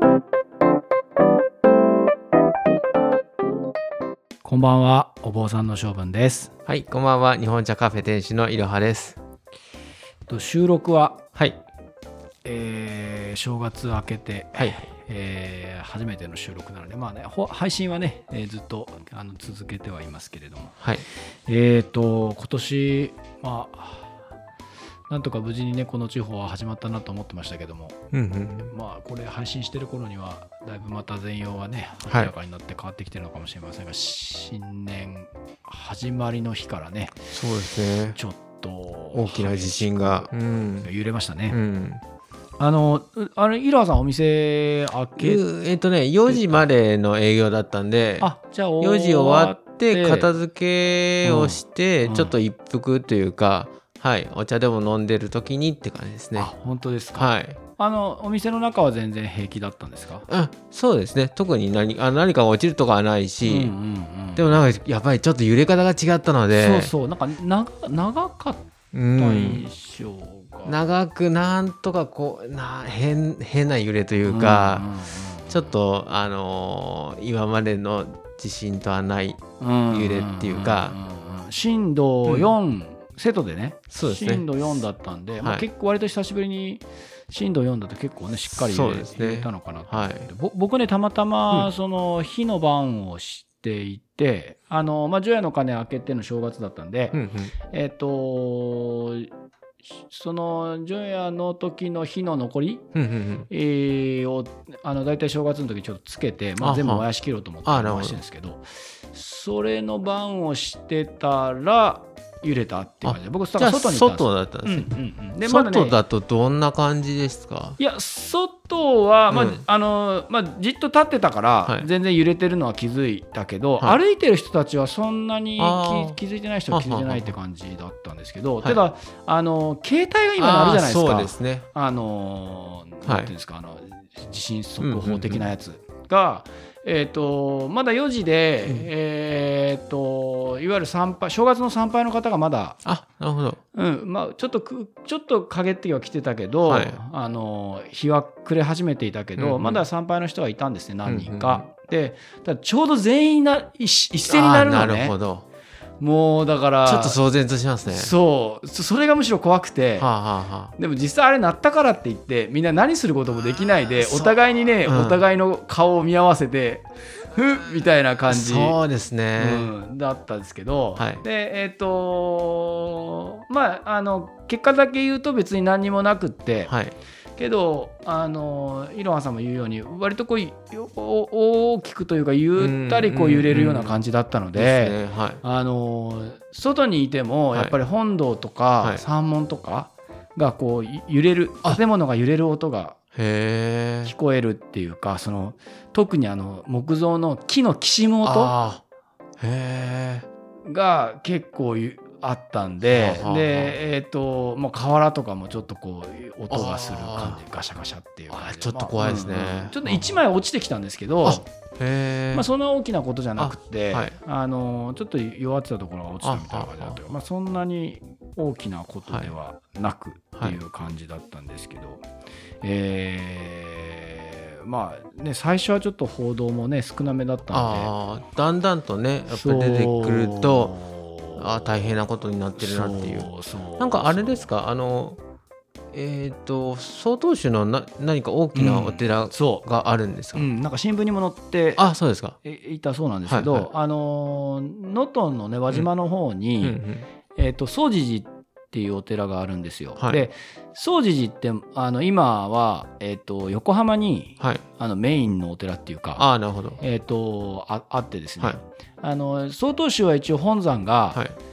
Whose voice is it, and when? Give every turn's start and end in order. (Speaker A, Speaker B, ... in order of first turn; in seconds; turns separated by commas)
Speaker A: 4.4-6.5, Speaker B: 6.7-9.2, Speaker A: 10.3-11.2, Speaker A: 12.4-20.8, Speaker B: 14.6-14.9, Speaker A: 21.4-24.1, Speaker A: 25.1-28.0, Speaker B: 28.1-28.7, Speaker A: 28.7-37.3, Speaker B: 32.0-32.3, Speaker B: 37.3-38.2, Speaker A: 38.1-41.6, Speaker B: 39.1-40.9, Speaker B: 41.5-42.0, Speaker A: 42.6-45.4, Speaker B: 45.1-56.5, Speaker A: 46.3-46.7, Speaker A: 48.2-50.3, Speaker A: 51.2-52.4, Speaker A: 56.3-60.3, Speaker B: 57.1-57.6, Speaker B: 60.3-63.7, Speaker A: 63.4-64.6, Speaker B: 64.3-66.9, Speaker A: 66.5-70.8, Speaker B: 68.9-69.7, Speaker B: 70.6-74.9, Speaker A: 74.2-75.7, Speaker B: 75.5-81.0, Speaker A: 79.6-97.2, Speaker B: 82.2-82.5, Speaker B: 83.9-84.5, Speaker B: 85.4-85.7, Speaker B: 88.5-90.3, Speaker B: 97.1-97.5, Speaker A: 97.7-99.3, Speaker A: 100.0-102.9, Speaker B: 102.9-103.5, Speaker A: 103.5-116.0, Speaker B: 106.6-107.0, Speaker B: 107.6-108.2, Speaker B: 113.0-114.9, Speaker B: 115.4-117.8, Speaker A: 117.8-142.8, Speaker B: 119.3-119.6, Speaker B: 125.6-126.2, Speaker B: 126.7-127.3, Speaker B: 130.4-131.6, Speaker B: 133.0-133.3, Speaker B: 134.8-135.5, Speaker B: 142.8-143.6, Speaker A: 143.7-155.2, Speaker B: 146.7-147.0, Speaker B: 149.4-149.8, Speaker B: 151.1-151.7, Speaker B: 154.3-155.4, Speaker A: 156.0-157.2, Speaker B: 156.8-158.1, Speaker A: 157.8-160.1, Speaker B: 160.0-160.7, Speaker A: 160.8-168.8, Speaker B: 164.0-165.2, Speaker B: 168.3-169.7, Speaker A: 169.3-176.7, Speaker B: 171.0-171.2, Speaker B: 176.7-176.9, Speaker A: 177.4-193.0, Speaker B: 182.6-184.0, Speaker B: 184.5-185.4, Speaker B: 193.1-194.1, Speaker A: 194.0-198.5, Speaker B: 198.2-198.8, Speaker B: 199.4-200.3, Speaker A: 200.7-211.5, Speaker B: 202.8-203.8, Speaker B: 206.5-207.4, Speaker B: 208.3-210.1, Speaker B: 211.2-212.5, Speaker A: 212.3-222.0, Speaker B: 213.4-214.2, Speaker B: 216.2-217.0, Speaker B: 219.1-219.3, Speaker A: 222.6-227.9, Speaker B: 227.5-230.8, Speaker A: 229.3-232.0, Speaker B: 231.3-235.2, Speaker A: 232.6-234.5, Speaker B: 235.9-240.5, Speaker A: 238.5-239.7, Speaker A: 240.3-241.8, Speaker B: 241.8-242.3, Speaker A: 242.4-246.8, Speaker B: 243.2-243.7, Speaker B: 246.6-247.1, Speaker A: 247.3-256.2, Speaker B: 250.0-250.2, Speaker B: 256.1-256.8, Speaker A: 256.8-261.2